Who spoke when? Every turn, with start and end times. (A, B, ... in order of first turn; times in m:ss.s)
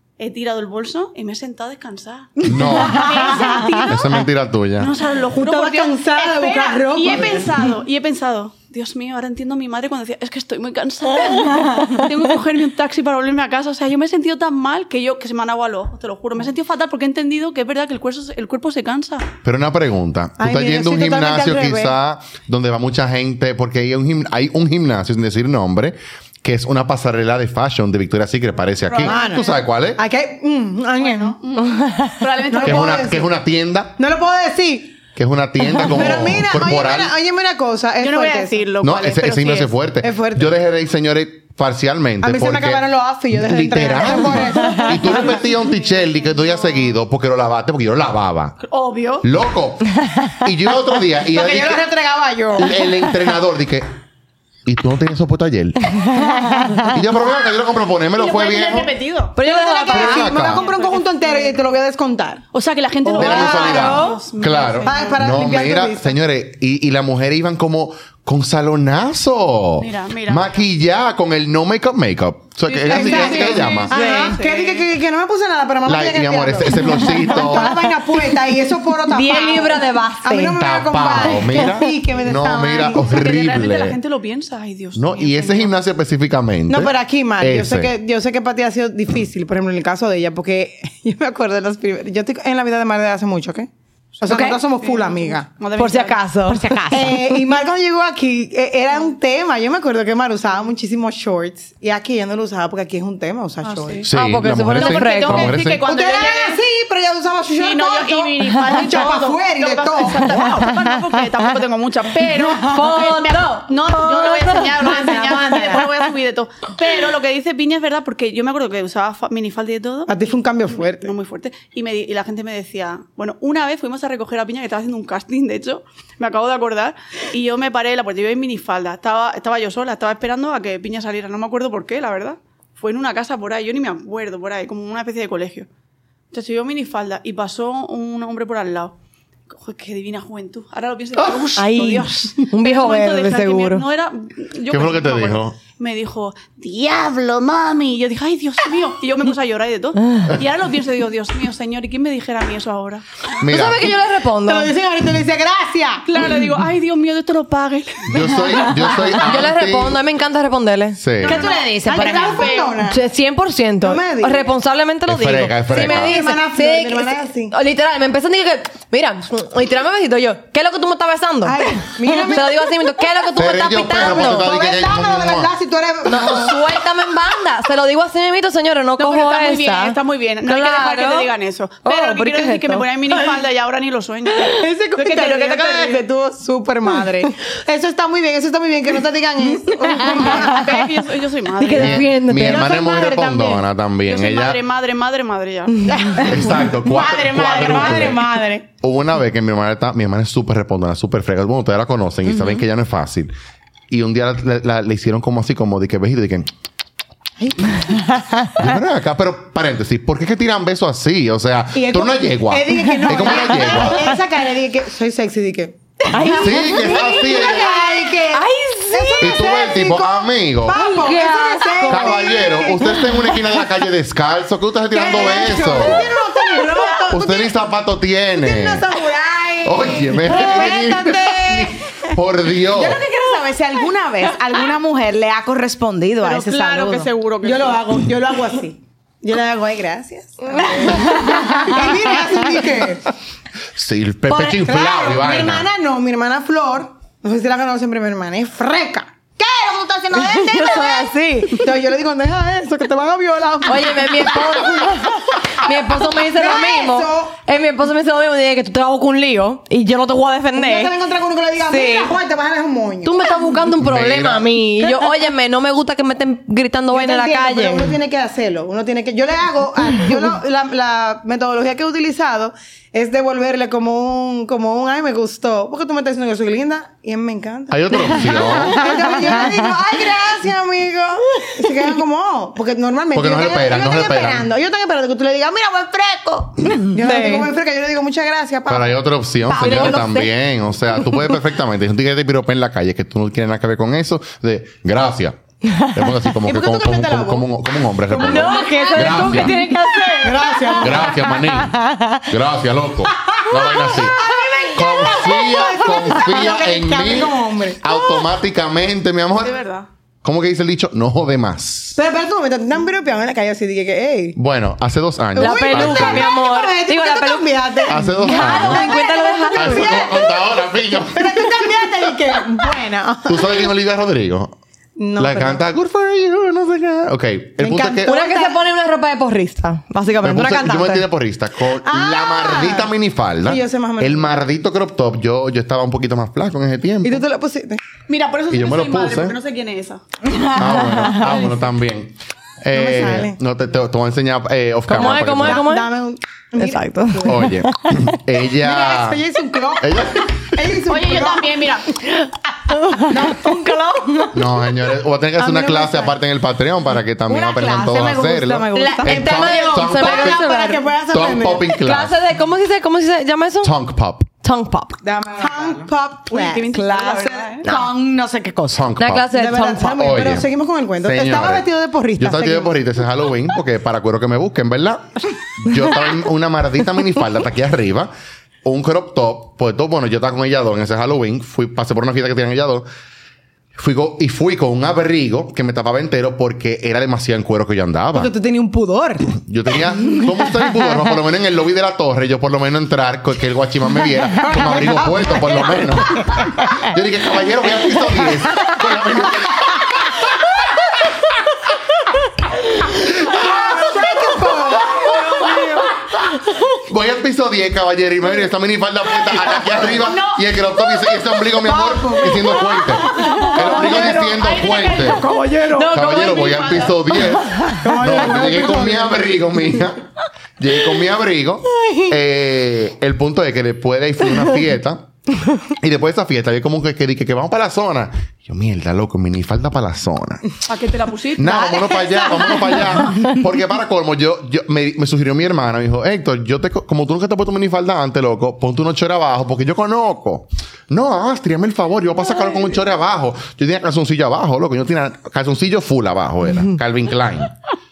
0:00.2-0:04.1 A
0:02.4-0:03.4 B
0:03.1-0:03.8 C
0:03.9-0:04.9 B
0:04.8-0:19.3 A
0:05.3-0:07.6 C
0:19.4-0:30.0 B
0:20.4-0:21.9 C
0:28.8-0:29.6 A
0:29.0-0:31.6 C
0:31.0-0:33.1 A
0:32.5-0:33.3 C
0:32.6-0:34.0 B
0:34.0-0:35.0 C
0:35.2-0:37.1 B
0:35.8-0:38.7 C
0:38.0-0:39.8 A
0:38.8-0:48.6 B
0:40.0-0:40.5 C
0:42.2-0:45.4 C
0:44.5-0:47.0 A
0:48.6-0:49.3 A
0:49.2-0:51.8 B
0:51.3-0:52.8 C
0:52.6-0:53.9 B
0:54.6-0:56.0 B
0:56.2-0:56.9 D
0:56.9-0:58.9 B
0:58.2-0:59.4 A
0:59.4-1:00.3 D
0:59.4-1:02.4 C
0:59.9-1:00.7 B
1:00.2-1:01.5 A
1:02.5-1:05.4 A
1:03.1-1:04.1 C
1:03.2-1:13.9 B
1:03.2-1:04.2 D
1:04.8-1:06.1 C
1:09.8-1:10.5 A
1:12.7-1:14.9 A
1:12.9-1:23.2 C
1:13.9-1:14.4 D
1:15.9-1:17.8 B
1:19.1-1:20.6 D
1:20.6-1:24.0 B
1:22.9-1:25.8 A
1:25.0-1:27.9 B
1:26.7-1:33.7 C
1:34.2-1:36.2 A
1:34.2-1:35.5 C
1:35.8-1:37.2 D
1:36.5-1:37.2 E
1:36.9-1:44.1 C
1:43.6-1:44.1 A
1:44.0-1:45.8 B
1:44.1-1:45.6 D
1:44.6-1:46.6 A
1:45.8-1:50.5 C
1:47.6-2:00.1 A
1:52.5-1:54.8 D
1:54.8-1:55.9 C
2:00.1-2:01.1 C
2:00.7-2:15.7 A
2:16.3-2:19.0 A
2:19.5-2:33.4 A
2:21.2-2:21.5 C
2:21.6-2:23.8 D
2:24.7-2:25.6 B
2:33.4-2:34.0 B
2:33.4-2:34.7 D
2:34.4-2:36.0 C
2:36.1-2:39.1 A
2:38.1-2:40.0 B
2:38.8-2:41.0 D
2:41.0-2:41.4 B
2:41.2-2:42.5 E
2:41.2-2:43.1 C
2:41.4-2:42.8 A
2:42.8-2:54.6 D
2:43.8-2:44.5 C
2:45.1-2:46.2 B
2:45.7-2:47.6 C
2:51.4-2:52.7 C
2:53.4-2:55.5 B
2:53.8-2:56.6 C
2:56.1-3:01.3 D
2:59.0-3:06.0 A
3:01.8-3:02.9 D
3:04.4-3:10.7 C
3:10.0-3:12.1 A
3:10.2-3:10.6 D
3:11.6-3:12.8 D
3:11.7-3:14.6 B
3:12.4-3:13.6 C
3:14.1-3:16.3 A
3:15.9-3:18.7 C
3:16.2-3:18.2 B
3:18.8-3:23.3 B
3:23.9-3:26.5 B
3:27.4-3:27.8 C
3:28.6-3:34.2 B
3:31.8-3:43.1 C
3:32.9-3:33.2 D
3:36.1-3:37.8 D
3:36.3-3:37.8 B
3:38.3-3:39.6 D
3:39.2-3:40.9 B
3:40.7-3:42.7 D
3:41.9-3:46.1 B
3:44.9-3:47.5 C
3:45.4-3:46.0 D
3:47.1-3:48.9 B
3:48.4-3:51.7 C
3:49.6-3:53.0 B
3:52.7-3:57.1 E
3:56.2-3:58.0 A
3:57.4-4:03.1 C
4:03.8-4:05.7 B
4:04.3-4:17.4 C
4:10.2-4:11.7 D
4:13.7-4:21.0 D
4:20.6-4:23.3 C
4:21.6-4:22.1 D
4:23.0-4:27.9 D
4:23.8-4:24.6 B
4:26.9-4:49.0 C
4:37.7-4:38.9 B
4:43.1-4:44.5 B
4:46.8-4:47.5 D
4:48.7-4:59.6 B
4:49.5-4:50.3 D
4:56.4-4:57.5 C
4:58.1-5:01.3 C
4:58.1-5:02.2 D
5:00.8-5:04.2 B
5:03.3-5:08.2 C
5:04.7-5:09.6 B
5:09.4-5:09.9 A
5:10.2-5:12.0 B
5:12.0-5:14.4 C
5:14.4-5:16.3 B
5:15.4-5:20.1 D
5:15.4-5:23.7 C
5:17.9-5:19.0 B
5:19.5-5:21.8 B
5:23.3-5:24.6 B
5:25.0-5:25.6 C
5:25.2-5:28.2 B
5:27.6-5:28.6 C
5:28.0-5:31.0 D
5:30.2-5:37.2 B
5:31.8-5:32.9 C
5:33.4-5:34.3 C
5:37.0-5:37.8 C
5:38.1-5:40.0 A
5:38.5-5:39.4 B
5:40.5-5:45.7 B
5:42.7-5:43.4 C
5:44.9-5:45.9 D
5:45.0-5:47.4 C
5:46.6-5:48.2 D
5:47.2-5:49.2 B
5:48.6-5:52.0 C
5:49.8-5:50.4 B
5:50.9-5:52.0 A
5:52.7-5:54.3 D
5:53.1-5:54.3 C
5:54.3-6:00.5 B
5:55.4-5:56.1 C
5:57.3-5:59.2 E
5:58.7-6:00.8 D
5:59.1-6:01.7 C
6:01.1-6:02.2 B
6:01.7-6:03.7 D
6:03.6-6:04.3 B
6:04.4-6:05.0 D
6:05.0-6:07.8 C
6:06.3-6:07.7 A
6:07.6-6:08.8 E
6:08.7-6:09.3 B
6:09.0-6:10.0 D
6:09.3-6:12.8 C
6:09.9-6:10.5 B
6:11.0-6:11.7 B
6:12.2-6:18.1 B
6:18.6-6:22.9 B
6:23.8-6:28.3 B
6:28.2-6:29.3 C
6:29.4-6:39.9 B
6:34.4-6:36.5 C
6:43.2-6:43.8 B
6:43.2-6:46.0 C
6:46.8-6:55.3 B
6:49.9-6:51.0 A
6:51.5-6:54.2 C
6:53.0-6:53.8 D
6:53.3-6:57.4 A
6:55.4-6:56.0 D
6:55.9-7:00.0 B
6:57.6-6:57.8 D
6:57.8-6:59.2 C
7:00.6-7:05.1 B
7:05.7-7:10.4 B
7:10.7-7:12.2 A
7:11.4-7:27.5 B
7:11.7-7:12.9 C